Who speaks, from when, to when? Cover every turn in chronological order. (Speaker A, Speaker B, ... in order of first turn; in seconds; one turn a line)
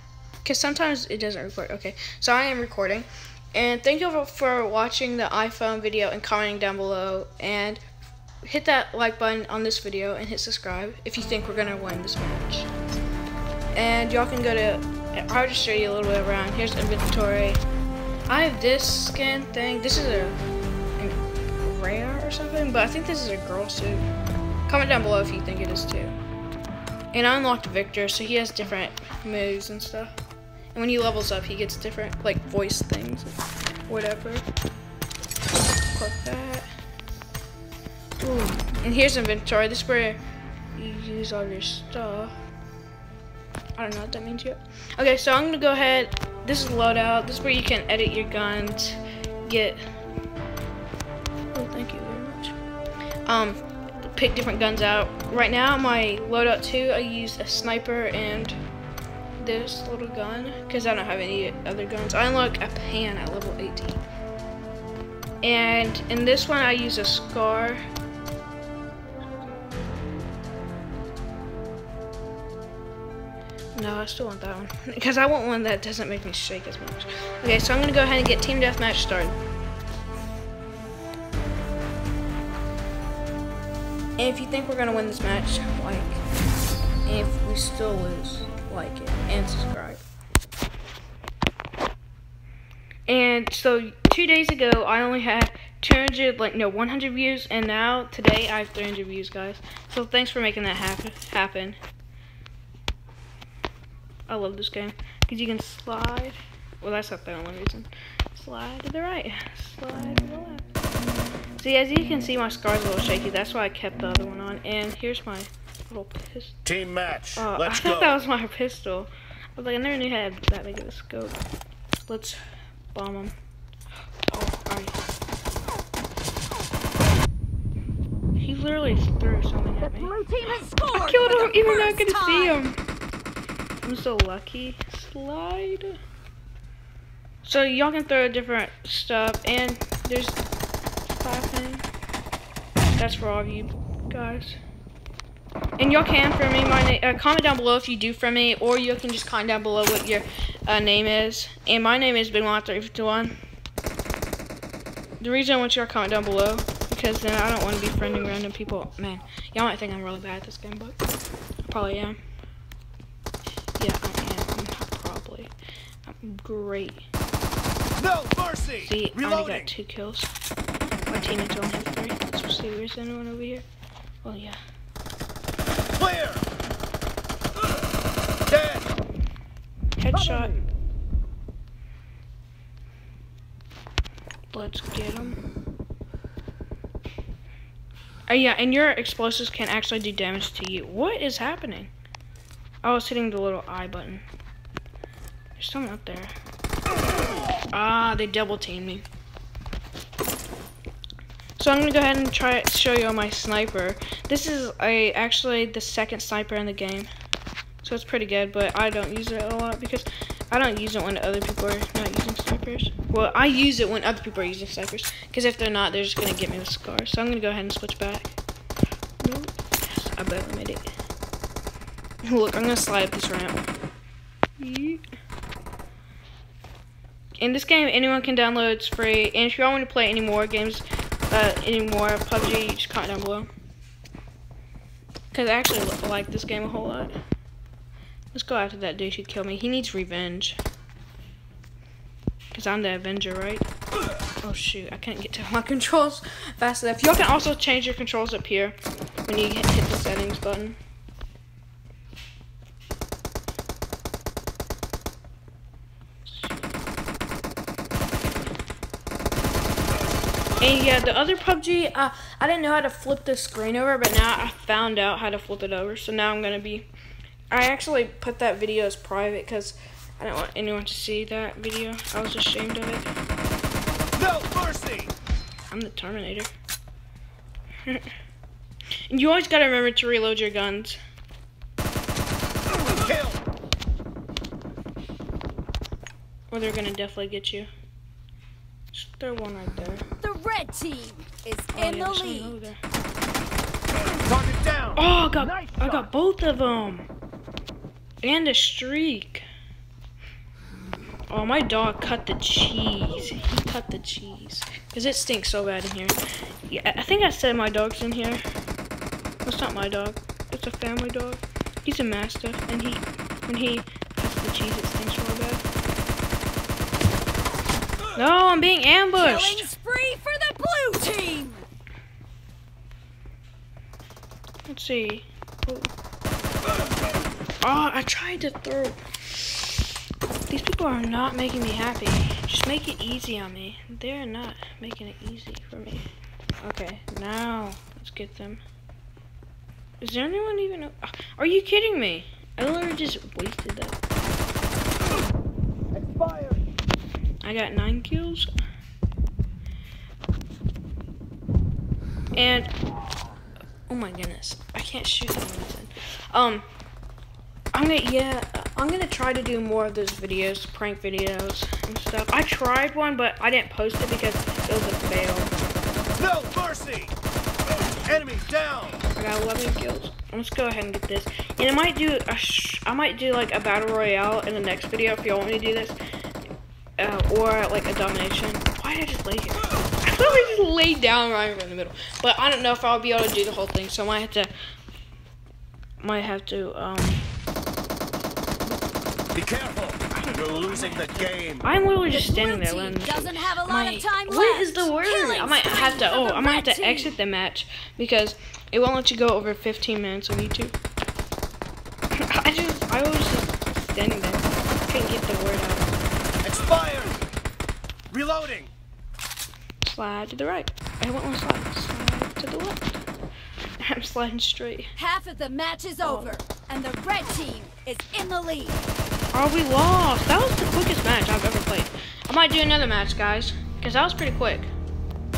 Speaker A: 0.4-7.8
Speaker A: 8.4-12.7
Speaker A: 13.7-17.6
Speaker A: 18.3-20.4
Speaker A: 21.0-24.0
Speaker A: 24.7-26.1
Speaker A: 27.1-30.1
Speaker A: 30.7-34.4
Speaker A: 35.9-36.6
Speaker A: 38.2-40.2
Speaker A: 40.7-42.3
Speaker A: 43.8-49.9
Speaker A: 51.5-52.5
Speaker A: 53.2-58.6
Speaker A: 59.4-64.0
Speaker A: 65.4-67.8
Speaker A: 73.7-79.3
Speaker A: 84.2-86.2
Speaker A: 87.0-90.0
Speaker A: 93.1-101.8
Speaker A: 104.3-110.7
Speaker A: 111.6-116.6
Speaker B: 116.6-118.2
Speaker A: 117.3-121.4
Speaker A: 122.1-122.4
Speaker A: 122.9-123.3
Speaker A: 124.3-125.0
Speaker A: 128.4-130.1
Speaker C: 129.8-132.6
Speaker A: 130.9-132.8
Speaker A: 133.8-136.0
Speaker A: 137.4-140.4
Speaker A: 141.1-141.8
Speaker A: 142.9-144.6
Speaker A: 145.8-153.3
Speaker A: 155.2-161.0
Speaker A: 161.7-162.2
Speaker A: 163.8-165.5
Speaker A: 166.0-167.1
Speaker B: 168.0-169.7
Speaker A: 168.8-170.3
Speaker A: 171.1-173.6
Speaker A: 174.2-174.6
Speaker B: 175.9-176.4
Speaker B: 178.4-178.9
Speaker A: 180.0-180.5
Speaker B: 180.1-180.6
Speaker A: 184.5-185.4
Speaker A: 188.3-191.9
Speaker A: 192.8-194.2
Speaker A: 195.6-196.3
Speaker A: 197.7-199.0
Speaker A: 201.6-207.1
Speaker A: 207.8-218.4
Speaker A: 219.2-220.9
Speaker A: 222.2-223.6
Speaker A: 224.6-225.0
Speaker A: 227.4-233.5
Speaker A: 235.3-237.1
Speaker A: 238.3-240.6
Speaker A: 242.5-243.7
Speaker A: 244.4-250.8
Speaker A: 256.3-256.7
Speaker A: 260.6-266.9
Speaker A: 267.5-273.1
Speaker B: 274.1-275.1
Speaker A: 275.7-276.5
Speaker A: 277.9-278.1
Speaker A: 279.1-281.0
Speaker B: 282.8-283.4
Speaker A: 286.5-287.7
Speaker A: 288.9-290.0
Speaker C: 290.2-292.7
Speaker A: 291.7-292.8
Speaker B: 294.2-296.1
Speaker A: 294.9-297.1
Speaker A: 298.2-299.4
Speaker A: 301.3-308.4
Speaker A: 309.4-315.6
Speaker A: 318.1-319.7
Speaker C: 319.1-321.6
Speaker A: 324.7-325.9
Speaker A: 327.6-329.7
Speaker A: 330.5-336.1
Speaker A: 336.6-338.6
Speaker A: 340.0-344.0
Speaker B: 345.9-346.6
Speaker A: 347.4-348.5
Speaker A: 352.3-352.7
Speaker A: 353.9-356.6
Speaker A: 357.7-365.5
Speaker B: 366.1-367.1
Speaker B: 368.0-369.0
Speaker A: 369.1-376.0
Speaker A: 377.0-384.5
Speaker A: 386.0-387.2
Speaker B: 389.3-391.6
Speaker A: 390.1-400.7
Speaker C: 392.1-397.2
Speaker A: 402.1-406.0
Speaker B: 406.4-407.2
Speaker B: 408.1-408.7
Speaker A: 409.8-413.0
Speaker A: 413.8-414.9
Speaker C: 414.9-418.8
Speaker A: 416.0-416.4
Speaker A: 419.3-424.7